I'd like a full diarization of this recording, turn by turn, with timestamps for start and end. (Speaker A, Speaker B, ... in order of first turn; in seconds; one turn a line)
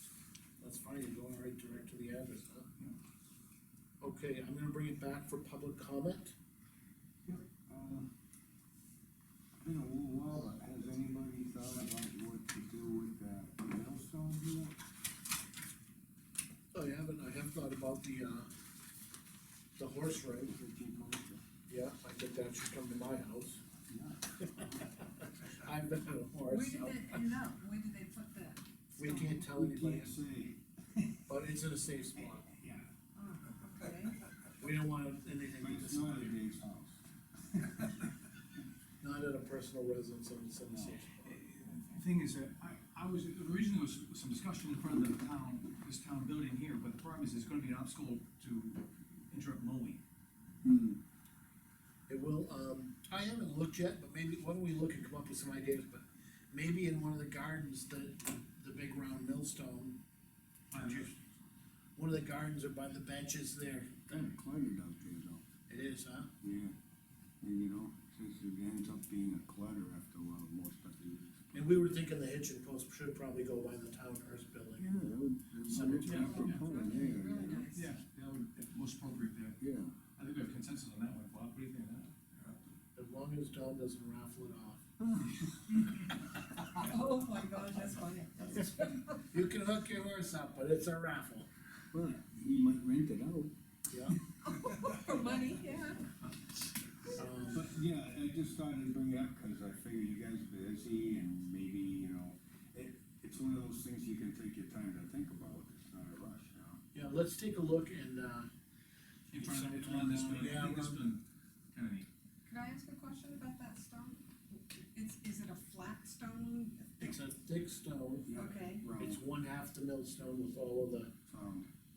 Speaker A: 0.6-2.7
Speaker A: 4.0-6.3
Speaker B: 7.3-8.1
Speaker B: 9.6-14.8
Speaker A: 16.7-18.5
Speaker A: 19.8-20.5
Speaker B: 20.5-21.4
Speaker A: 21.7-23.6
Speaker B: 23.9-24.5
Speaker A: 24.5-27.1
Speaker C: 26.5-29.5
Speaker A: 29.0-30.1
Speaker B: 29.4-30.6
Speaker A: 31.3-32.5
Speaker C: 33.1-34.2
Speaker A: 34.6-36.4
Speaker B: 35.6-37.0
Speaker A: 39.0-41.4
Speaker B: 40.7-41.0
Speaker D: 41.2-50.0
Speaker B: 50.6-51.0
Speaker A: 52.1-60.0
Speaker D: 60.7-61.1
Speaker A: 60.8-61.2
Speaker A: 62.0-64.2
Speaker B: 64.1-65.4
Speaker A: 65.7-66.3
Speaker B: 66.4-66.8
Speaker B: 67.4-71.9
Speaker A: 71.5-75.1
Speaker B: 74.8-77.6
Speaker A: 75.6-76.6
Speaker C: 76.0-77.9
Speaker D: 76.0-76.6
Speaker D: 77.7-79.6
Speaker B: 79.6-80.0
Speaker D: 80.2-82.5
Speaker A: 83.0-84.8
Speaker C: 86.8-89.2
Speaker A: 89.2-91.5
Speaker B: 91.9-93.5
Speaker A: 93.9-94.2
Speaker C: 94.4-96.3
Speaker C: 97.1-97.4
Speaker A: 97.2-97.7
Speaker B: 97.5-106.8
Speaker A: 106.9-108.5
Speaker D: 109.3-112.1
Speaker A: 109.4-111.1
Speaker C: 112.5-117.2
Speaker A: 117.0-118.3
Speaker B: 118.3-119.2
Speaker C: 118.3-118.9
Speaker A: 119.0-121.1
Speaker B: 121.3-121.7